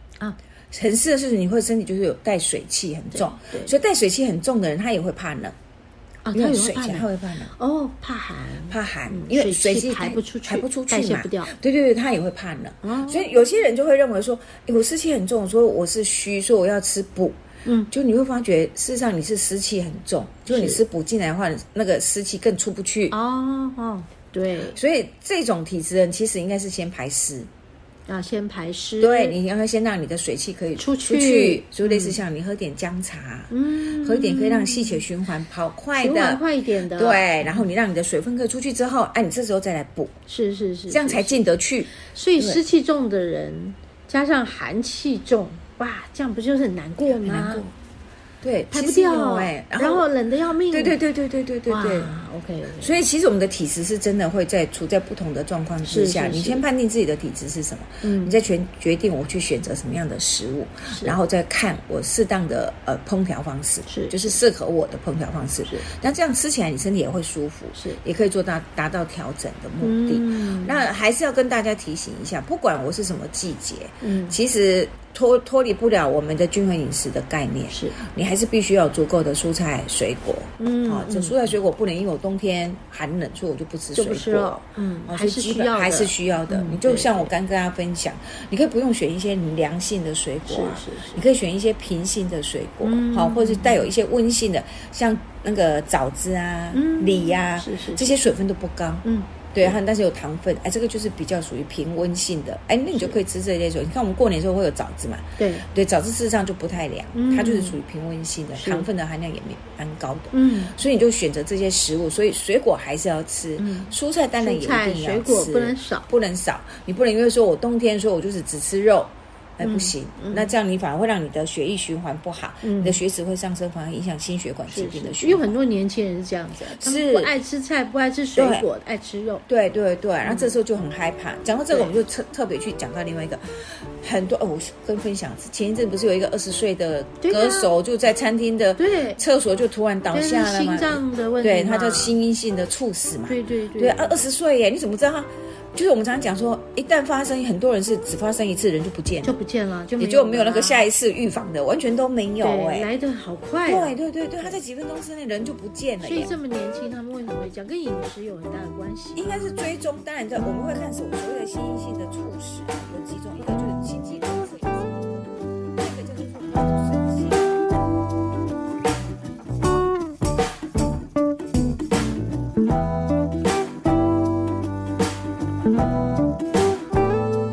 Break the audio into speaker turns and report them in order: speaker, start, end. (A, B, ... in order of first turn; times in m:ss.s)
0:00.7-0:05.6 A
0:03.1-0:03.7 B
0:06.2-0:11.5 B
0:06.3-0:07.5 A
0:08.7-0:17.4 A
0:12.8-0:13.4 B
0:17.6-0:17.9 B
0:17.9-0:23.2 A
0:20.5-0:20.8 B
0:23.1-0:24.8 B
0:24.7-0:27.5 A
0:28.1-0:29.4 B
0:29.0-0:40.1 A
0:30.8-0:32.2 B
0:33.5-0:35.0 B
0:36.0-0:37.7 B
0:40.3-0:41.4 B
0:40.9-0:42.6 A
0:42.0-0:47.7 B
0:47.2-0:47.7 A
0:48.4-0:50.1 A
0:48.7-0:51.0 B
0:50.7-0:52.2 A
0:51.7-0:53.0 B
0:52.8-2:05.6 A
0:55.8-0:56.6 B
0:58.0-0:58.4 B
1:03.9-1:04.4 B
1:09.8-1:10.8 B
1:14.0-1:14.4 B
1:17.7-1:18.0 B
1:20.6-1:21.5 B
1:23.9-1:27.3 B
1:30.5-1:31.2 B
1:32.8-1:33.9 B
1:36.7-1:38.1 B
1:39.0-1:39.8 B
1:45.4-1:45.7 B
1:47.1-1:47.8 B
1:48.6-1:48.9 B
1:50.3-1:50.7 B
1:53.6-1:56.1 B
1:59.6-2:00.5 B
2:02.6-2:03.0 B
2:04.7-2:09.4 B
2:06.7-2:07.3 A
2:08.4-2:08.7 A
2:09.5-2:29.4 A
2:10.2-2:10.6 B
2:11.7-2:12.0 B
2:17.2-2:17.7 B
2:18.8-2:19.2 B
2:20.1-2:22.2 B
2:23.3-2:24.2 B
2:29.2-2:30.9 B
2:30.0-2:32.9 A
2:32.4-2:34.5 B
2:33.7-2:36.3 A
2:36.0-2:39.5 B
2:39.2-2:47.5 A